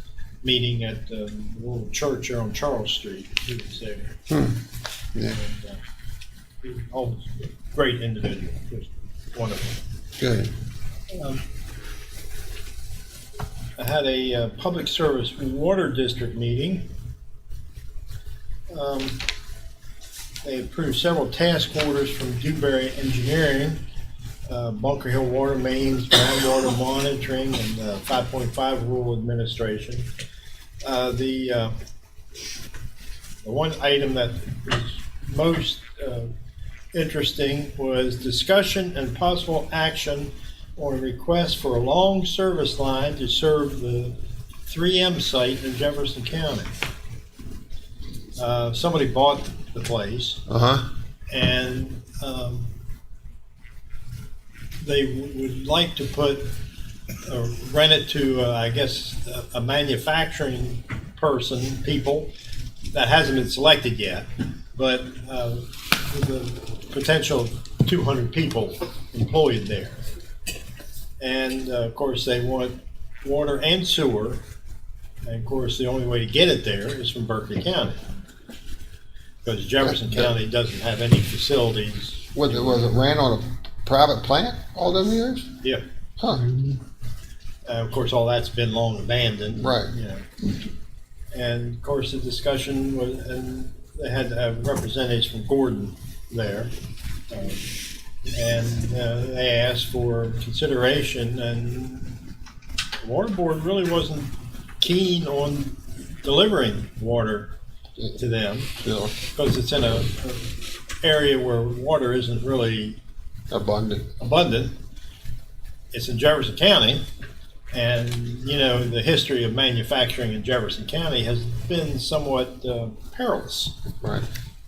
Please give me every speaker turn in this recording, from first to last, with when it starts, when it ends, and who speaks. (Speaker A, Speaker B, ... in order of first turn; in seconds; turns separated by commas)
Speaker A: 0.4-4.1, Speaker B: 4.3-4.6, Speaker A: 5.3-5.8, Speaker A: 6.6-9.8, Speaker B: 10.2-10.5, Speaker A: 11.1-11.4, Speaker A: 13.8-16.9, Speaker A: 18.7-19.2, Speaker A: 20.4-23.8, Speaker A: 24.5-30.1, Speaker A: 30.8-31.7, Speaker A: 33.4-36.3, Speaker A: 36.9-46.7, Speaker A: 48.4-50.4, Speaker B: 50.5-50.9, Speaker A: 51.3-52.7, Speaker A: 54.8-56.5, Speaker A: 57.2-62.3, Speaker A: 62.9-70.0, Speaker A: 71.2-74.4, Speaker A: 75.2-78.0, Speaker A: 79.4-82.9, Speaker B: 82.3-85.5, Speaker B: 86.2-86.5, Speaker A: 87.7-90.3, Speaker B: 89.6-89.9, Speaker A: 91.3-96.7, Speaker A: 97.3-97.7, Speaker A: 98.3-102.2, Speaker A: 103.0-107.5, Speaker A: 108.1-113.0, Speaker B: 108.8-109.1, Speaker B: 113.5-114.1, Speaker A: 114.2-114.8, Speaker A: 115.9-117.0, Speaker A: 117.7-123.7, Speaker B: 124.0-124.2